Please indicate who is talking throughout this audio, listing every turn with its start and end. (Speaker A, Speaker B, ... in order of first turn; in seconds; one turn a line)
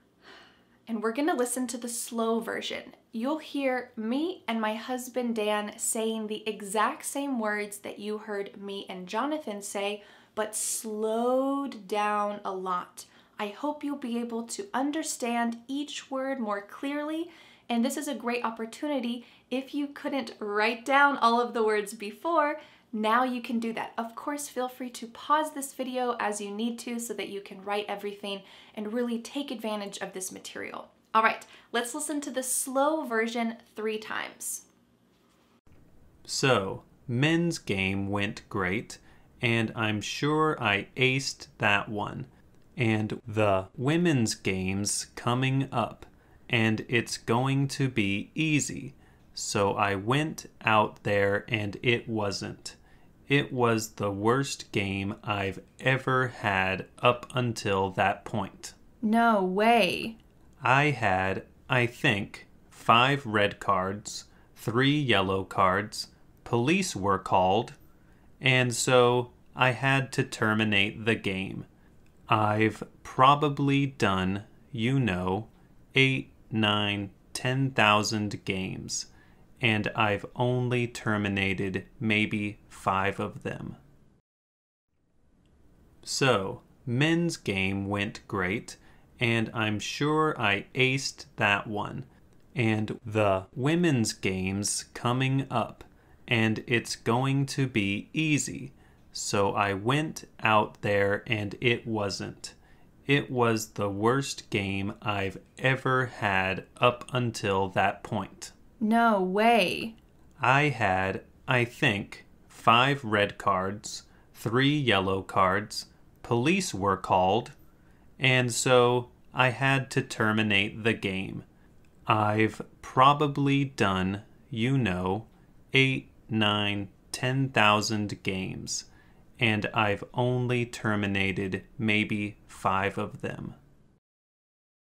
Speaker A: 0.9-34.6
Speaker B: 36.2-52.8
Speaker B: 53.3-58.7
Speaker A: 59.0-60.1
Speaker B: 60.6-67.8
Speaker B: 68.4-71.7
Speaker B: 72.3-79.1
Speaker B: 79.6-83.8
Speaker B: 86.0-102.5
Speaker B: 103.1-108.5
Speaker A: 108.8-109.9
Speaker B: 110.4-117.5
Speaker B: 118.2-121.4
Speaker B: 122.1-128.9
Speaker B: 129.4-133.6